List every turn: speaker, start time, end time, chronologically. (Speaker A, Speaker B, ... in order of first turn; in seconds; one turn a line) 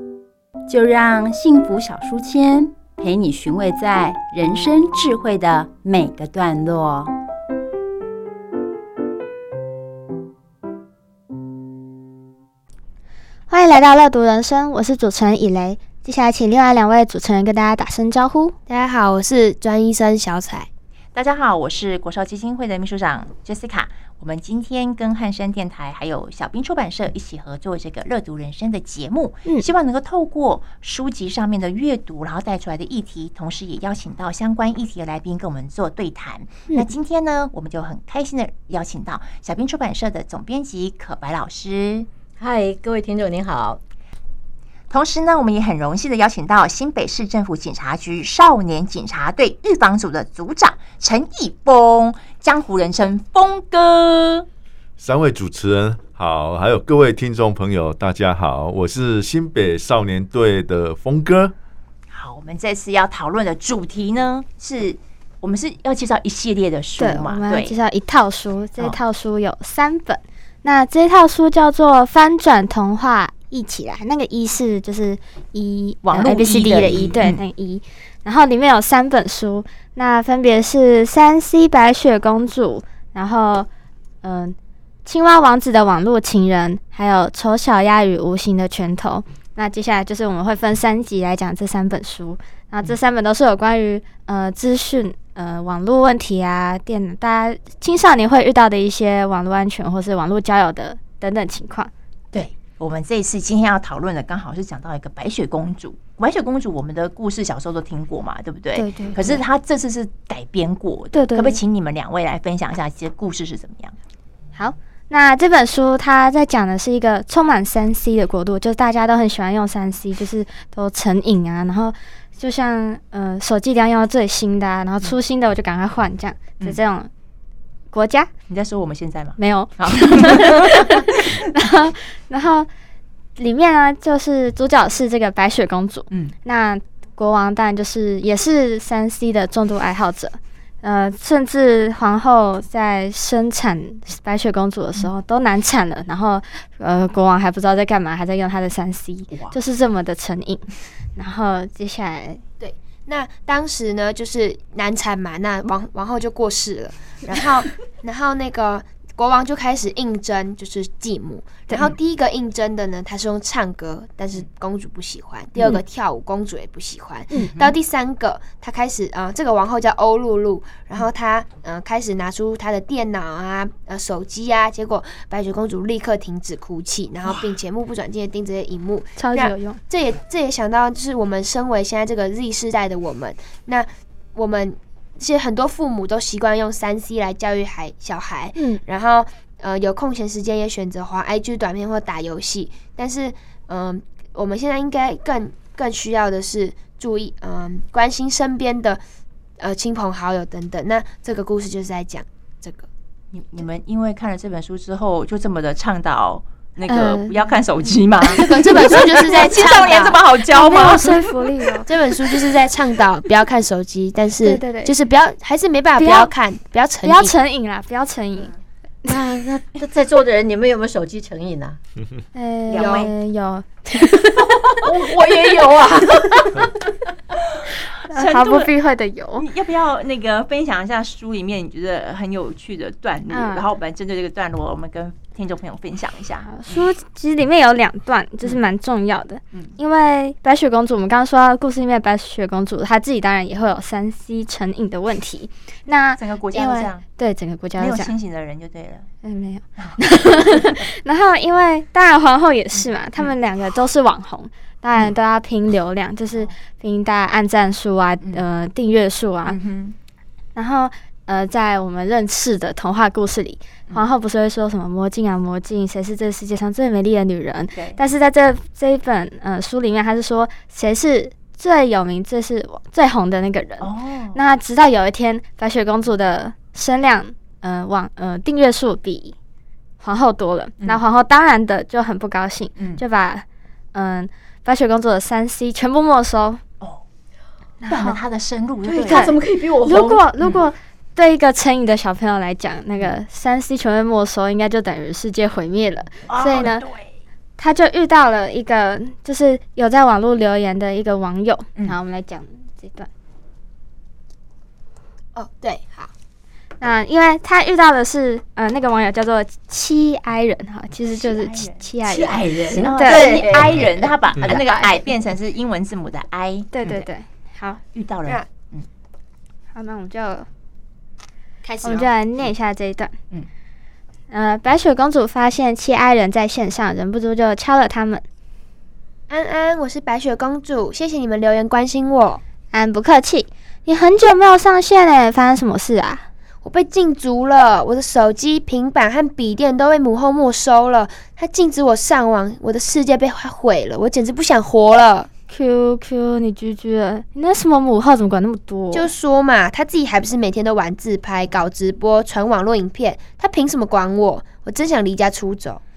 Speaker A: 0.7-7.1
Speaker B: 13.5-18.6
Speaker C: 18.7-20.7
Speaker D: 21.1-42.1
Speaker E: 42.4-43.8
Speaker D: 44.9-54.5
Speaker F: 55.0-61.5
Speaker D: 62.1-67.7
Speaker B: 67.0-83.7
Speaker D: 76.0-77.4
Speaker F: 76.8-77.2
Speaker B: 84.2-101.9
Speaker D: 102.3-114.0
Speaker B: 108.8-109.4
Speaker B: 111.1-111.6
Speaker B: 114.5-127.1
Speaker B: 127.9-128.3
Speaker D: 128.5-131.2
Speaker B: 129.4-132.7
Speaker B: 133.4-152.4
Speaker D: 149.3-149.6
Speaker C: 152.6-199.0
Speaker D: 167.4-167.7
Speaker B: 179.2-179.8
Speaker B: 188.6-188.8
Speaker C: 199.6-202.8
Speaker D: 203.3-211.4
Speaker B: 206.8-207.4
Speaker C: 208.2-210.2
Speaker B: 208.4-208.8
Speaker B: 210.5-211.9
Speaker C: 211.8-217.3
Speaker B: 214.4-214.9
Speaker B: 216.0-216.3
Speaker B: 217.0-218.5
Speaker E: 219.0-221.8
Speaker B: 222.3-224.3
Speaker D: 222.7-223.1
Speaker C: 222.8-223.1
Speaker D: 224.8-226.5
Speaker E: 224.8-226.7
Speaker D: 227.6-228.7
Speaker B: 228.1-229.5
Speaker D: 229.4-236.8
Speaker B: 233.3-233.6
Speaker B: 236.4-248.1
Speaker D: 246.2-247.0
Speaker D: 247.8-249.1
Speaker B: 249.2-259.6
Speaker D: 249.8-250.8
Speaker D: 259.4-259.9
Speaker B: 260.5-279.4
Speaker D: 273.8-274.4
Speaker B: 280.0-286.6
Speaker D: 282.8-283.0
Speaker B: 287.8-288.2
Speaker D: 287.9-289.3
Speaker E: 288.8-290.2
Speaker B: 289.1-296.8
Speaker D: 290.4-290.6
Speaker D: 296.3-297.1
Speaker B: 297.6-303.1
Speaker C: 305.3-306.1
Speaker B: 306.8-313.4
Speaker D: 311.1-311.8
Speaker E: 312.0-315.1
Speaker D: 312.8-317.0
Speaker B: 316.7-317.8
Speaker D: 317.9-318.9
Speaker B: 319.7-320.5
Speaker C: 321.6-322.1
Speaker B: 321.8-323.1
Speaker B: 324.3-328.2
Speaker C: 329.3-332.4
Speaker B: 332.7-336.3
Speaker C: 336.6-345.3
Speaker B: 345.5-349.1
Speaker C: 348.9-355.8